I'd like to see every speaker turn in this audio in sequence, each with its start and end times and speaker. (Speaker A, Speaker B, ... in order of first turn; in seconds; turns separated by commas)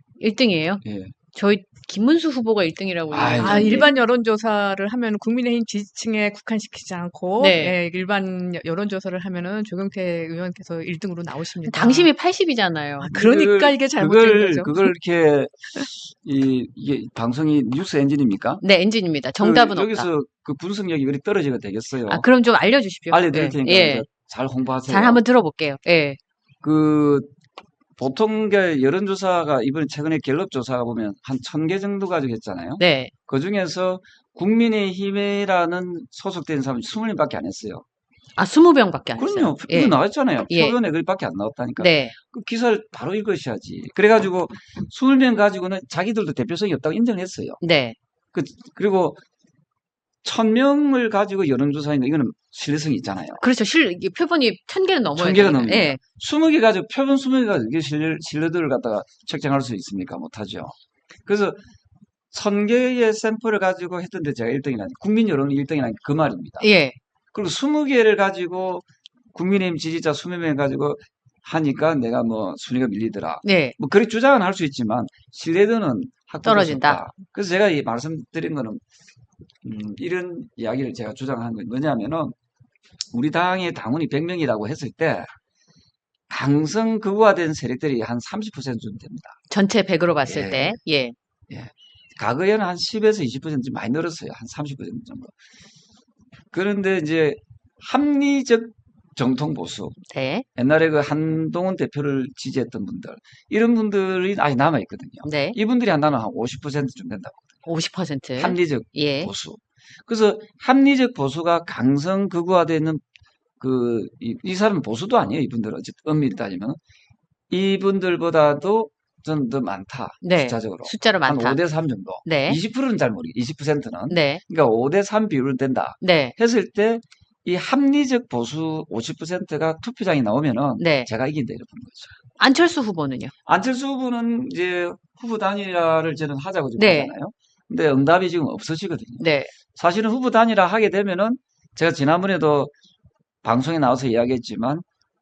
Speaker A: 0.2-0.8, Speaker B: 0.8-1.1, Speaker A: 1.3-3.9, Speaker B: 3.1-3.9, Speaker C: 3.4-12.1, Speaker A: 7.4-7.8, Speaker A: 11.6-13.1, Speaker C: 13.0-14.9, Speaker B: 13.1-18.6, Speaker A: 18.6-20.1, Speaker B: 19.4-22.2, Speaker A: 22.1-24.0, Speaker B: 23.1-25.2, Speaker A: 24.9-26.2, Speaker B: 26.6-27.3, Speaker B: 28.0-37.8, Speaker A: 32.8-33.1, Speaker A: 38.4-40.0, Speaker B: 39.2-47.6, Speaker A: 40.5-40.8, Speaker A: 41.8-42.1, Speaker A: 47.6-48.0, Speaker B: 48.3-49.2, Speaker B: 50.2-53.4, Speaker A: 53.4-56.0, Speaker B: 55.1-60.7, Speaker B: 61.2-61.6, Speaker B: 62.3-66.7, Speaker A: 66.6-67.0, Speaker B: 67.3-78.8, Speaker A: 73.4-73.8, Speaker A: 76.4-77.0, Speaker B: 79.6-82.3, Speaker B: 83.1-85.3, Speaker B: 86.3-89.4, Speaker A: 89.5-91.1, Speaker B: 90.2-90.8, Speaker B: 91.5-95.3, Speaker B: 96.5-100.0, Speaker A: 100.1-100.4, Speaker B: 100.5-107.5, Speaker A: 105.2-105.6, Speaker A: 107.6-109.3, Speaker B: 108.4-113.0, Speaker B: 113.6-116.8, Speaker B: 117.5-132.1, Speaker A: 120.2-121.6, Speaker A: 122.2-122.6, Speaker A: 124.1-124.4, Speaker A: 126.0-126.3, Speaker A: 130.8-131.1, Speaker A: 132.4-133.3, Speaker B: 133.4-139.2, Speaker A: 136.8-137.1, Speaker A: 139.2-139.5, Speaker B: 139.7-142.7, Speaker B: 143.4-144.8